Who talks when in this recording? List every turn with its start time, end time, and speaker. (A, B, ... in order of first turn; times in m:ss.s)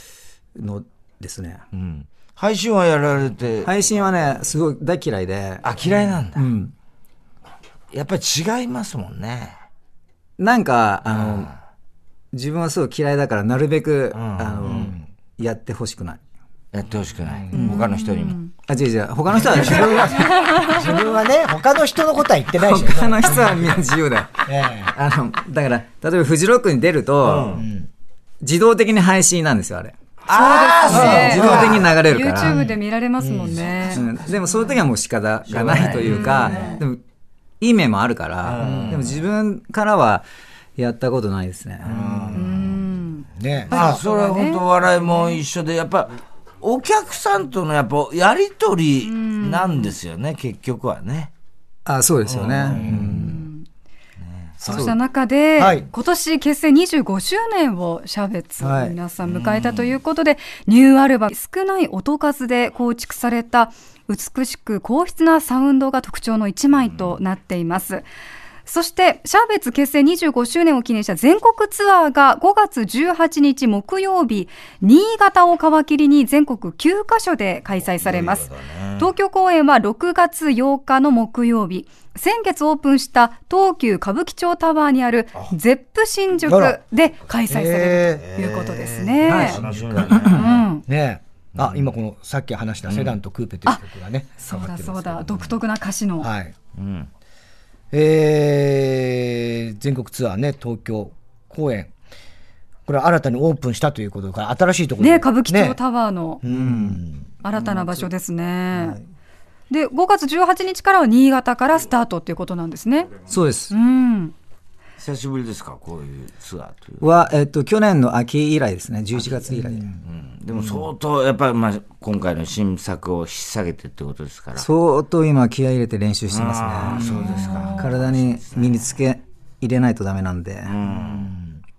0:00.6-0:01.6 A
0:01.7-0:03.7 B
0:03.6-0:05.6 A
0:05.6-0:06.5 B
0:06.4-0:06.7 A
0:07.9-0:09.6 B
0:10.4-0:11.5 A
0:11.1-0:11.5 B
0:12.3-0:16.2 A
0:14.1-0:14.9 B
0:14.6-0:15.0 C
0:16.7-0:18.4 B
0:17.3-0:17.7 C
0:17.5-0:18.5 D
0:18.7-0:20.5 A
0:19.4-0:20.1 B
0:19.6-0:23.8 C
0:20.4-0:20.7 D
0:22.5-0:27.6 A
0:24.5-0:24.9 C
0:27.2-0:27.6 B
0:27.5-0:27.9 C
0:28.4-0:30.0 A
0:30.3-0:31.9 B
0:30.3-0:34.0 D
0:30.9-0:32.6 A
0:31.1-0:31.5 C
0:32.4-0:34.0 C
0:33.9-0:37.0 A
0:35.5-0:36.7 B
0:36.0-0:36.8 D
0:37.6-0:40.3 A
0:38.4-0:39.2 B
0:38.6-0:39.0 C
0:40.8-0:42.1 A
0:41.9-0:42.6 C
0:41.9-0:42.6 B
0:42.3-0:45.4 D
0:43.4-0:43.9 C
0:43.7-0:51.3 B
0:49.0-0:50.0 D
0:51.9-0:53.5 A
0:52.2-0:53.2 B
0:52.9-0:53.6 D
0:54.2-0:54.5 B
0:54.6-1:08.0 D
0:54.6-0:55.0 A
0:55.6-0:55.9 C
0:58.6-0:59.0 A
0:59.2-1:00.0 B
1:06.9-1:07.2 B
1:08.6-1:29.6 D
1:18.0-1:19.1 B
1:26.5-1:26.8 C
1:27.5-1:28.3 C
1:28.4-1:30.7 B
1:29.2-1:30.3 A
1:29.6-1:35.5 C
1:30.3-1:30.8 D
1:31.6-1:31.9 B
1:32.9-1:33.2 B
1:34.4-1:36.3 D
1:36.2-1:36.5 C
1:36.8-1:37.1 B
1:37.9-1:41.9 C
1:42.9-1:45.8 C
1:45.0-1:46.4 D
1:46.4-1:47.3 C
1:46.4-1:47.0 A
1:47.4-1:49.0 D
1:47.5-1:48.0 A
1:48.8-1:49.0 A
1:49.7-1:53.1 D
1:53.3-1:53.7 A
1:53.7-1:54.3 D
1:55.0-1:57.0 B
1:57.0-1:59.9 A
1:59.6-2:00.0 C
2:00.0-2:04.7 B
2:00.5-2:00.9 C
2:04.6-2:07.2 A
2:06.3-2:08.8 B
2:06.9-2:07.8 C
2:07.4-2:07.7 D
2:07.8-2:10.8 A
2:10.6-2:11.3 B
2:10.9-2:11.6 C